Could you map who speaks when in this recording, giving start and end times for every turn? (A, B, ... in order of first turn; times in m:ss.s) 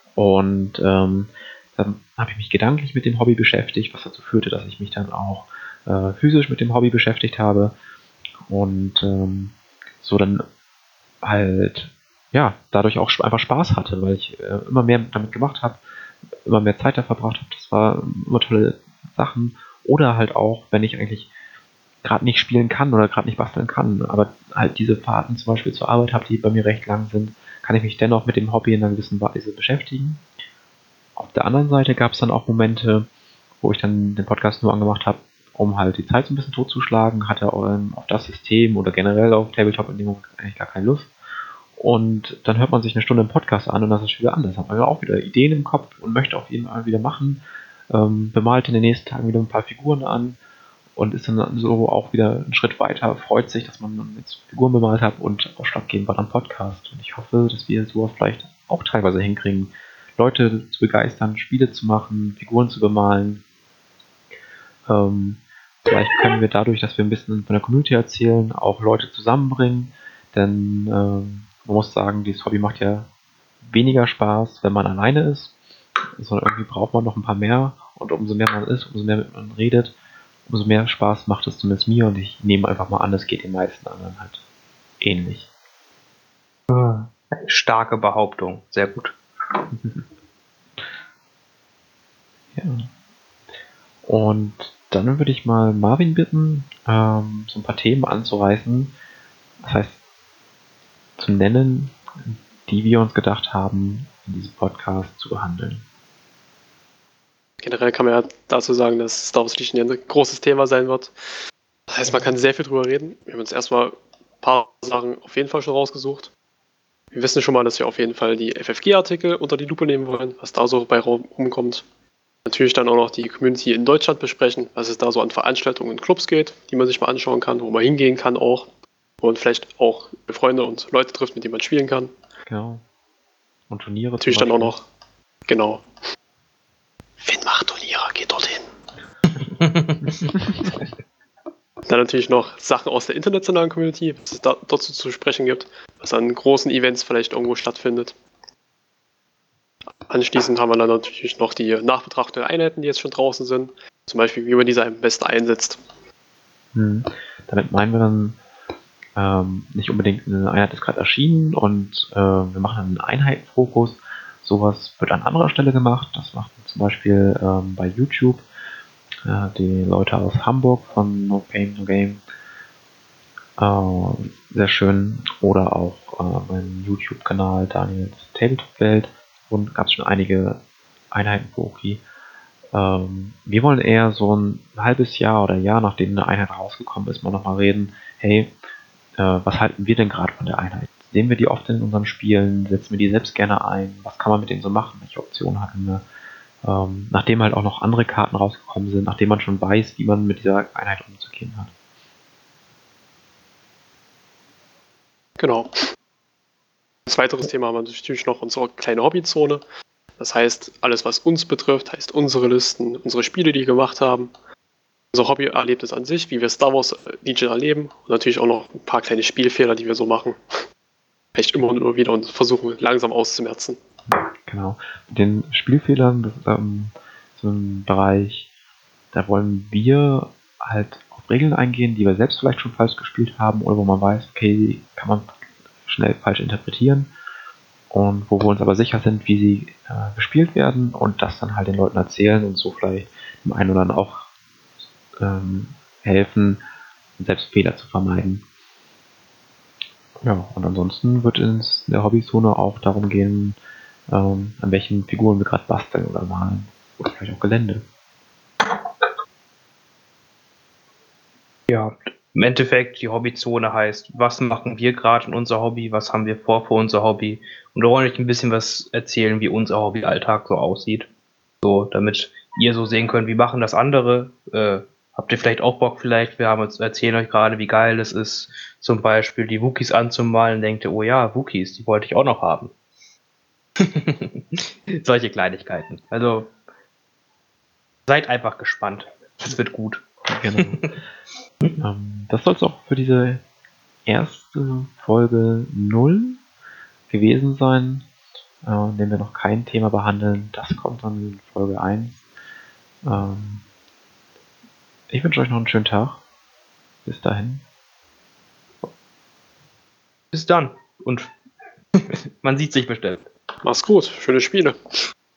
0:00.2-0:07.7 A
0:08.5-0:10.4 A
0:11.2-0:15.8 A
0:16.4-0:21.3 A
0:22.0-0:30.2 A
0:31.2-0:33.1 A
0:33.6-0:41.1 A
0:41.8-0:50.4 A
0:51.0-1:03.4 A
1:04.9-1:13.1 A
1:13.6-1:15.6 A
1:16.2-1:20.0 A
1:20.5-1:24.4 A
1:25.0-1:25.5 A
1:26.7-1:29.2 B
1:29.7-1:30.1 A
1:32.6-1:32.9 A
1:34.0-1:38.9 A
1:39.6-1:40.0 A
1:41.2-1:45.8 A
1:47.6-1:51.1 C
1:51.9-1:56.3 C
1:57.1-2:01.8 C
2:02.5-2:08.7 C
2:09.2-2:12.1 C
2:12.5-2:12.8 A
2:13.7-2:14.8 A
2:14.2-2:14.9 C
2:15.5-2:15.8 C
2:17.2-2:18.7 C
2:19.6-2:20.2 B
2:21.9-2:28.2 C
2:30.1-2:35.8 C
2:36.7-2:38.4 A
2:39.2-2:48.4 A
2:49.2-2:52.2 A
2:53.6-3:00.6 A
3:01.1-3:02.0 A
3:02.7-3:08.5 A
3:09.2-3:16.0 A
3:16.6-3:21.7 A
3:25.4-3:25.7 C
3:27.1-3:29.6 C
3:30.2-3:34.3 C
3:35.1-3:40.4 C
3:41.4-3:43.8 C
3:44.1-3:48.5 A
3:49.1-3:55.3 A
3:55.9-3:57.1 A
3:57.9-4:04.3 A
4:05.2-4:06.6 A
4:07.2-4:08.4 A
4:10.2-4:13.6 A
4:14.1-4:17.8 A
4:21.7-4:31.1 B
4:31.6-4:42.7 B
4:43.8-4:46.5 B
4:48.1-4:50.0 B
4:50.3-4:50.8 A
4:50.6-4:50.9 B
4:51.8-4:53.4 A
4:54.1-4:56.4 A
4:57.1-4:58.1 A
4:58.6-5:02.2 A
5:03.0-5:03.6 A
5:05.1-5:06.2 A
5:07.0-5:07.6 A
5:10.3-5:11.3 B
5:12.0-5:13.2 B
5:13.6-5:14.8 C